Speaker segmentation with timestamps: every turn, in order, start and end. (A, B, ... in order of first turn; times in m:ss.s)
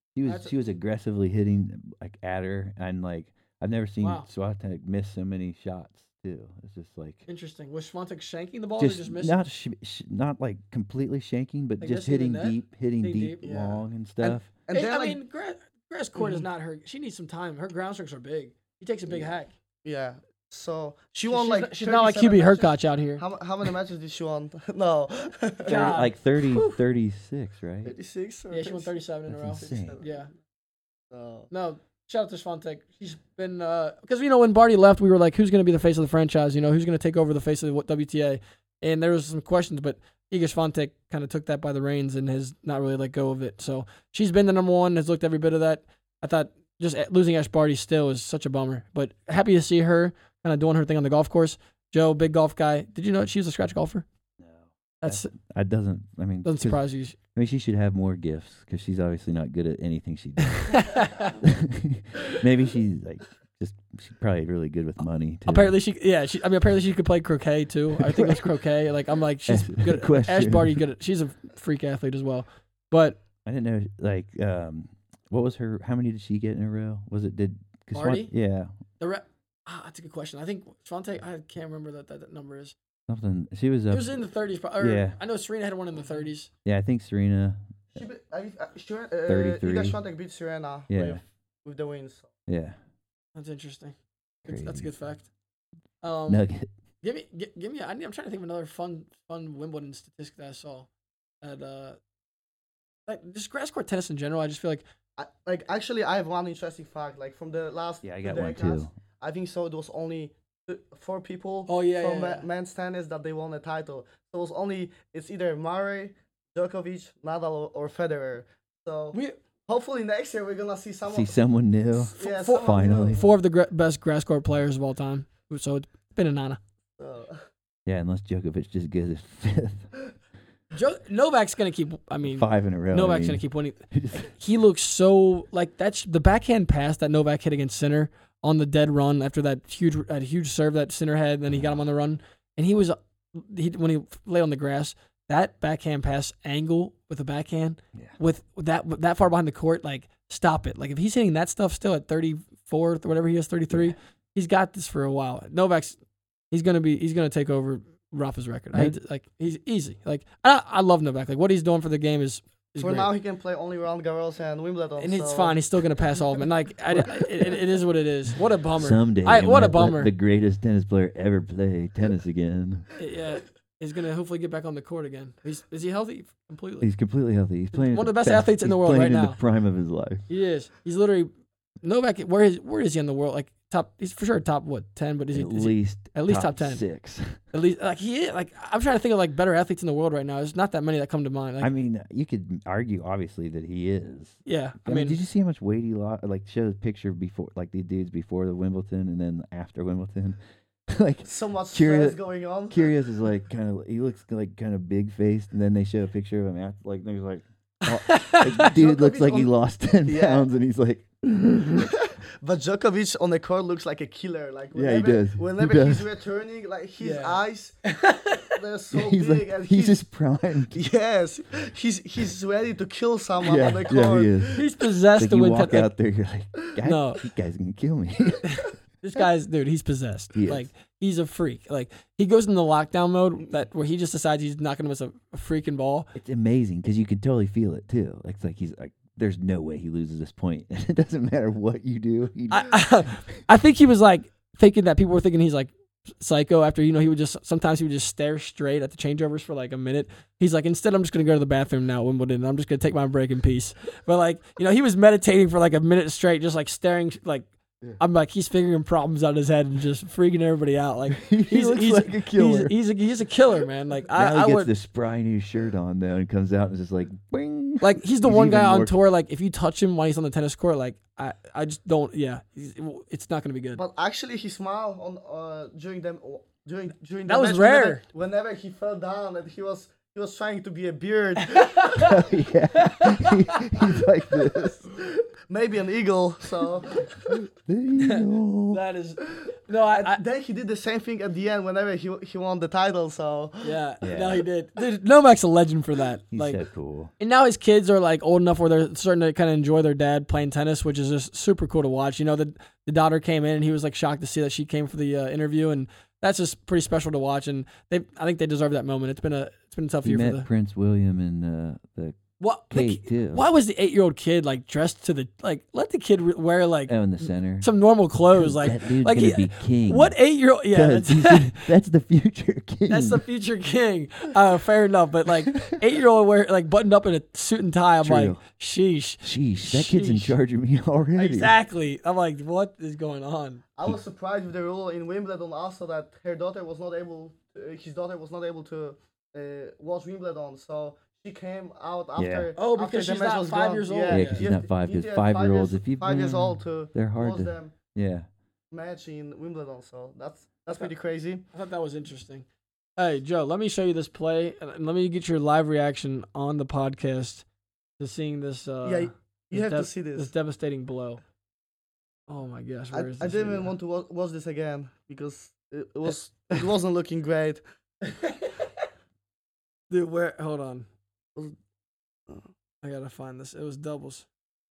0:00.2-0:07.2 A
0:00.3-0:00.5 B
0:04.0-0:04.3 B
0:07.3-0:09.4 B
0:08.8-0:14.5 A
0:11.8-0:13.4 B
0:13.4-0:15.2 C
0:14.7-0:19.5 B
0:16.2-0:16.5 C
0:19.8-0:26.0 C
0:21.3-0:23.2 B
0:25.6-0:26.8 B
0:25.7-0:27.9 A
0:27.8-0:28.9 C
0:28.5-0:30.3 B
0:29.3-0:30.0 A
0:29.7-0:30.2 C
0:31.1-0:31.5 C
0:31.5-0:54.1 B
0:54.4-0:56.8 A
0:55.0-0:55.3 B
0:56.4-0:57.2 B
0:57.3-1:05.7 A
1:00.6-1:01.3 B
1:05.5-1:13.2 B
1:08.0-1:08.4 A
1:09.5-1:10.8 A
1:13.4-1:18.7 A
1:17.9-1:18.3 B
1:19.0-1:22.8 B
1:23.1-1:24.2 A
1:23.9-1:26.5 B
1:24.8-1:25.2 A
1:26.6-1:28.0 A
1:28.0-1:32.3 C
1:29.3-1:30.0 A
1:30.9-1:31.2 A
1:32.5-1:32.8 A
1:33.4-1:35.3 B
1:34.4-1:34.9 A
1:36.0-1:36.4 B
1:36.3-1:36.7 A
1:37.0-1:40.9 B
1:41.4-1:42.0 B
1:43.1-1:44.8 B
1:45.2-2:01.3 C
1:48.0-1:48.9 A
1:51.7-1:52.5 B
2:01.1-2:03.2 A
2:02.1-2:03.3 C
2:02.2-2:06.6 B
2:07.0-2:07.4 C
2:07.9-2:09.9 A
2:10.7-2:36.0 B
2:12.2-2:14.3 A
2:36.5-2:43.1 B
2:42.8-2:45.6 C
2:45.0-2:50.1 B
2:48.8-2:52.9 A
2:53.0-2:56.9 B
2:56.8-3:00.2 A
2:57.7-2:59.4 B
3:00.3-3:01.3 B
3:01.8-3:06.8 B
3:05.3-3:07.4 A
3:07.5-3:11.7 B
3:11.6-3:20.4 A
3:14.4-3:15.2 B
3:20.9-3:22.2 A
3:21.2-3:22.9 C
3:22.7-3:31.9 A
3:27.9-3:28.7 B
3:28.7-3:30.5 C
3:31.8-3:37.8 C
3:34.7-3:36.1 A
3:37.0-3:38.5 B
3:38.6-3:40.1 C
3:38.9-3:40.8 A
3:40.7-3:44.7 C
3:43.4-3:44.6 A
3:44.5-3:45.9 B
3:45.2-3:48.4 A
3:46.8-3:47.2 B
3:48.4-3:56.1 B
3:50.3-3:50.7 A
3:56.1-4:03.1 A
4:02.5-4:24.7 B
4:21.1-4:22.7 A
4:24.2-4:29.0 A
4:27.8-4:33.8 B
4:33.8-4:42.0 C
4:37.3-4:38.0 B
4:41.4-4:42.2 B
4:41.9-4:44.9 A
4:42.8-4:43.6 B
4:44.5-4:47.1 C
4:47.3-4:48.8 A
4:48.0-4:50.2 B
4:49.3-4:53.8 C
4:53.6-4:56.6 B
4:54.0-4:54.4 A
4:56.3-4:57.1 A
4:57.2-5:10.5 B
5:10.0-5:12.2 A
5:12.4-5:17.0 B
5:12.7-5:13.4 A
5:16.9-5:17.7 A
5:17.6-5:21.7 B
5:18.3-5:20.2 A
5:20.7-5:23.2 A
5:22.9-5:30.3 B
5:28.0-5:28.4 A
5:29.2-5:31.6 A
5:31.2-5:33.6 B
5:33.8-5:47.7 C
5:42.2-5:42.5 A
5:42.6-5:44.5 B
5:44.1-5:48.3 A
5:48.7-5:51.4 C
5:51.5-5:52.5 B
5:53.0-5:57.4 B
5:58.0-6:01.2 B
5:58.8-6:00.3 C
6:02.3-6:03.7 B
6:02.9-6:07.6 C
6:08.0-6:08.8 B
6:09.9-6:10.9 B
6:12.8-6:14.3 B